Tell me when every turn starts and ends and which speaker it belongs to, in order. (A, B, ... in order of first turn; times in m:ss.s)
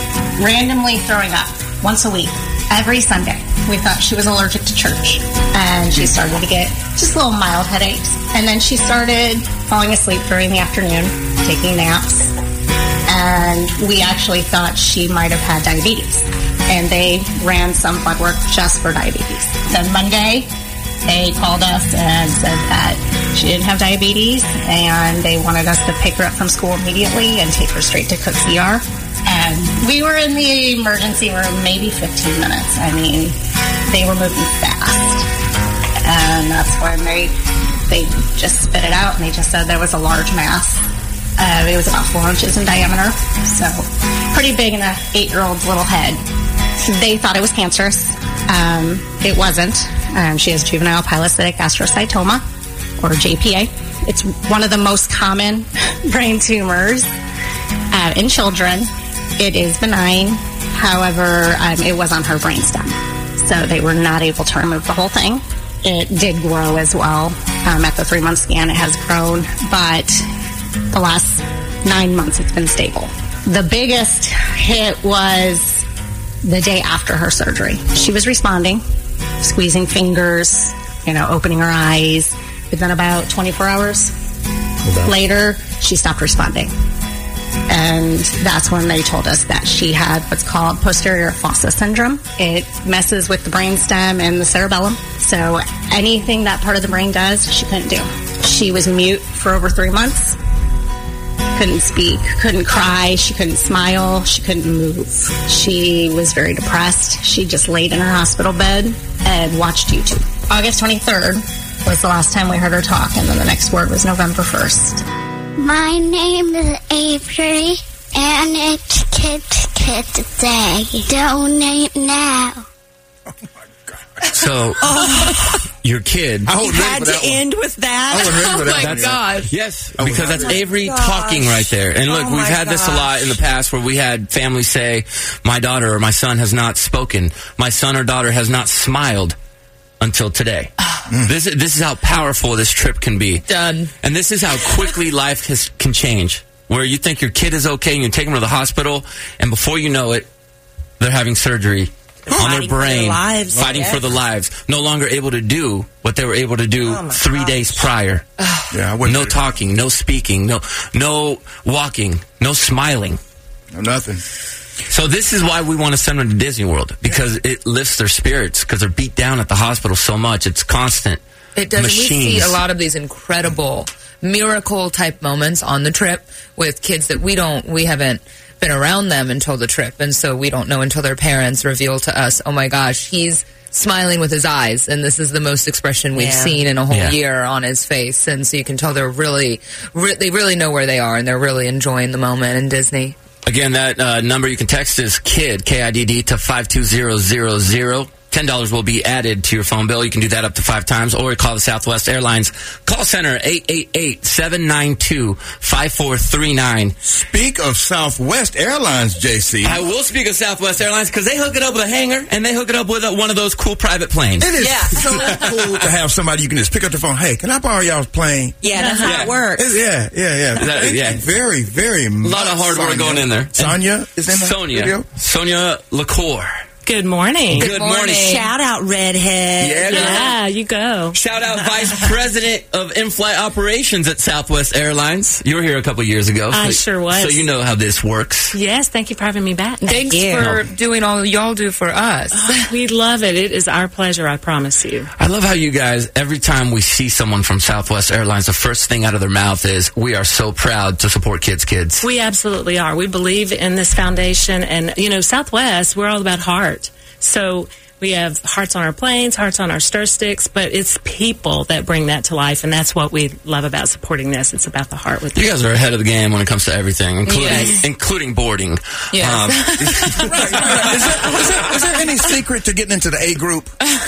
0:00.4-0:12.3 A
0:13.1-0:20.5 A
0:21.0-0:33.4 A
0:33.9-0:35.3 A
0:36.0-0:37.3 A
0:37.9-0:40.8 A
0:41.4-0:46.2 A
0:46.8-0:52.4 A
0:53.0-0:57.1 A
0:57.9-1:10.2 A
1:10.9-1:15.8 A
1:16.4-1:18.8 A
1:19.4-1:24.1 A
1:25.0-1:26.7 A
1:27.7-1:40.4 A
1:41.5-1:55.0 A
1:55.6-2:02.2 B
2:04.3-2:04.8 C
2:04.8-2:05.6 D
2:05.8-2:06.5 C
2:06.4-2:07.4 E
2:06.5-2:08.5 D
2:08.1-2:09.2 E
2:08.3-2:09.5 F
2:08.8-2:19.4 C
2:10.0-2:10.6 E
2:10.2-2:13.3 D
2:20.0-2:20.7 C
2:21.2-2:23.4 C
2:23.5-2:23.9 F
2:24.0-2:30.2 C
2:31.0-2:38.2 C
2:32.3-2:34.1 D
2:36.8-2:37.9 D
2:38.7-2:39.4 E
2:39.0-2:43.2 C
2:43.7-2:44.2 E
2:44.9-2:51.2 C
2:51.6-3:13.2 F
2:51.7-2:52.6 C
3:06.1-3:06.6 D
3:06.9-3:07.1 C
3:13.4-3:26.9 C
3:27.0-3:29.8 E
3:29.6-3:34.5 C
3:34.4-3:38.6 E
3:34.6-3:34.9 D
3:38.6-3:39.8 D
3:38.7-3:39.3 G
3:39.0-3:39.3 C
3:39.6-3:45.0 E
3:40.6-3:41.2 C
3:42.2-3:46.5 C
3:46.8-3:47.7 G
3:47.5-3:48.4 C
3:47.5-3:48.5 F
3:48.1-3:50.3 D
3:49.6-3:50.3 C
3:49.9-3:51.2 G
3:51.1-3:58.5 C
3:56.5-3:57.4 G
3:58.5-3:59.9 G
3:59.8-4:00.5 D
3:59.8-4:02.6 F
4:02.3-4:05.1 G
4:05.2-4:12.0 C
4:12.0-4:25.5 G
4:25.3-4:30.8 C
4:27.2-4:27.8 F
4:29.1-4:30.9 F
4:30.2-4:33.7 E